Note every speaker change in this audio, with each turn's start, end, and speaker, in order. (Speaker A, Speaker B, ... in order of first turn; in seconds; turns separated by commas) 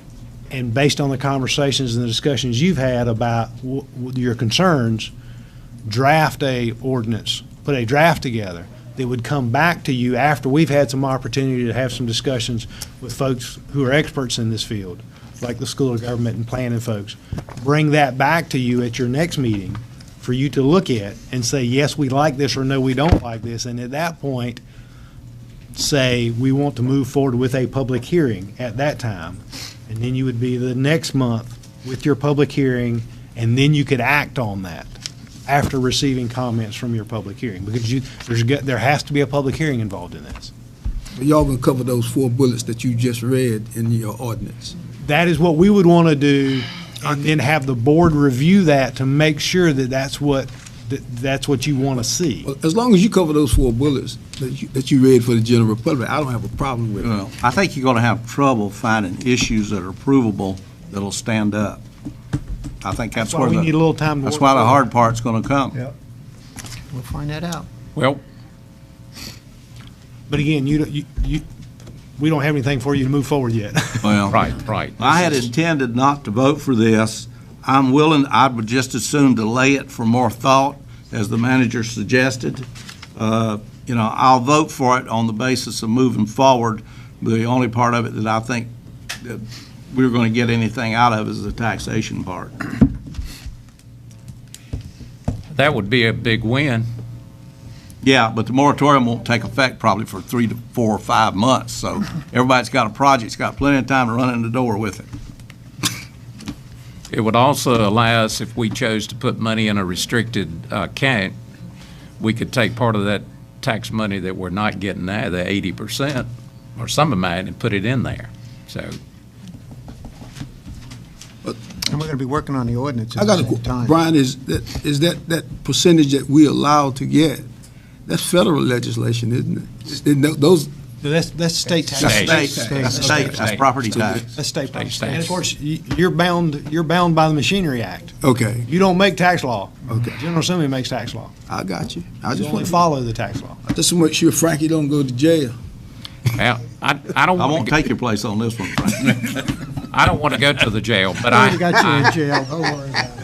Speaker A: 0.5-5.1, Speaker A: 5.8-24.6, Speaker A: 25.7-40.5, Speaker B: 41.2-44.8, Speaker A: 45.0-52.5, Speaker B: 52.5-57.1, Speaker C: 57.0-61.8, Speaker C: 62.8-63.7, Speaker A: 63.2-64.8, Speaker C: 64.2-65.8, Speaker D: 66.9-67.6, Speaker E: 68.0-68.2, Speaker A: 70.3-71.4, Speaker A: 72.2-74.3, Speaker C: 74.0-74.4, Speaker E: 74.3-75.1, Speaker C: 75.0-88.7, Speaker C: 89.2-92.7, Speaker E: 95.5-96.8, Speaker C: 98.0-105.1, Speaker E: 107.1-111.3, Speaker E: 112.2-118.9, Speaker D: 122.7-123.6, Speaker B: 123.2-127.5, Speaker B: 128.1-130.7, Speaker A: 131.0-133.3, Speaker B: 131.9-133.3, Speaker E: 132.0-133.7, Speaker C: 132.1-134.2, Speaker A: 134.1-138.1, Speaker E: 134.7-135.4, Speaker B: 138.2-138.7, Speaker A: 138.7-141.3, Speaker B: 141.5-142.8, Speaker A: 142.3-143.6, Speaker B: 143.7-145.6, Speaker E: 146.3-147.8, Speaker C: 147.4-149.6, Speaker E: 149.9-152.2, Speaker D: 151.9-153.1